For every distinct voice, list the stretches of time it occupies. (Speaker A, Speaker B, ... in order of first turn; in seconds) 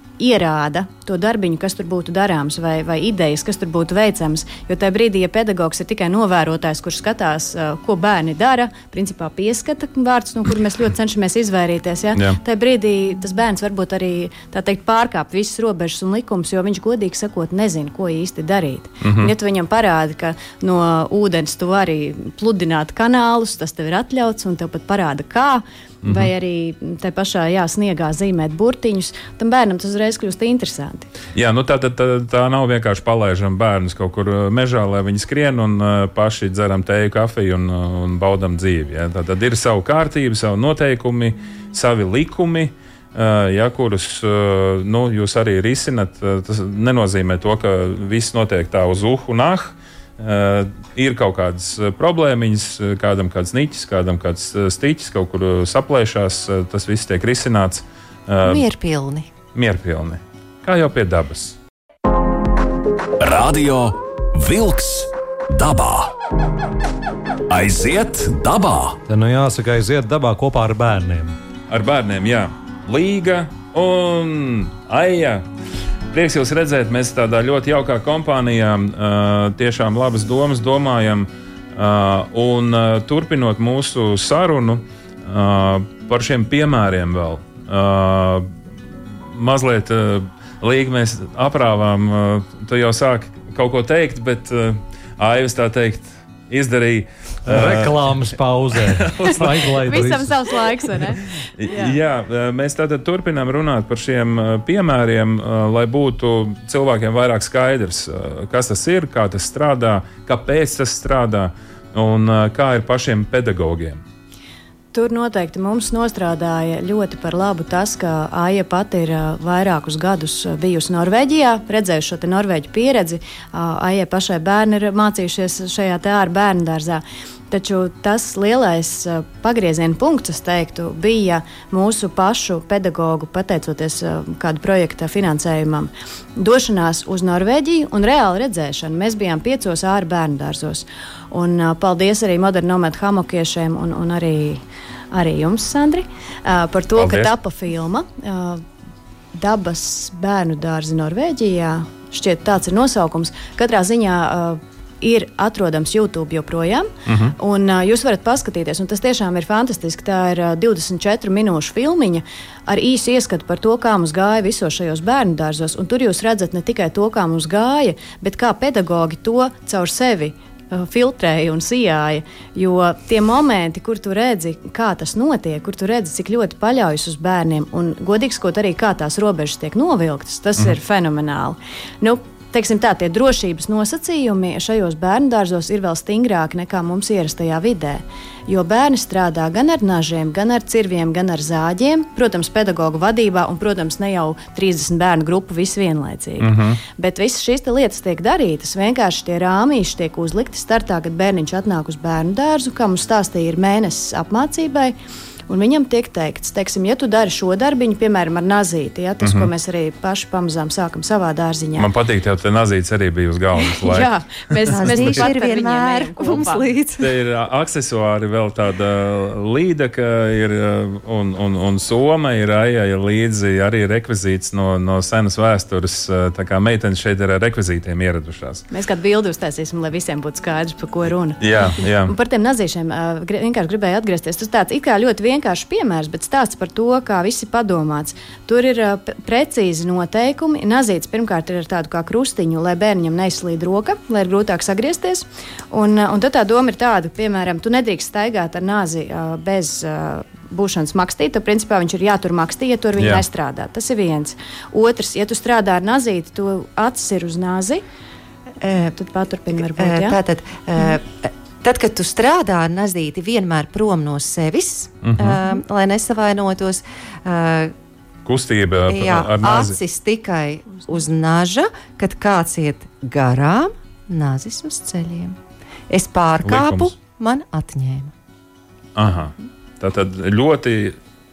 Speaker A: 0.2-31.1, 99.2-102.0, 114.9-148.6, 149.3-204.9, 205.5-211.9, 213.6-216.7, 228.7-257.8, 258.9-260.2
Speaker B: 19.0-19.3, 26.0-26.3, 31.4-58.6, 59.5-61.6, 71.7-75.5, 76.1-88.5, 89.3-98.2, 98.7-100.1, 101.6-114.0, 147.0-147.3, 157.1-157.3, 196.4-196.8, 209.2-209.5, 211.8-215.3, 217.0-228.7, 231.4-232.1, 253.0-253.2, 265.0-265.4, 268.2-269.8, 276.4-276.9, 279.0-281.0
Speaker C: 58.4-59.3, 214.7-217.1, 258.6-258.9, 259.8-267.7, 268.9-275.4, 275.9-278.1
Speaker D: 63.2-66.1, 67.5-69.0
Speaker E: 69.1-71.4, 97.5-100.3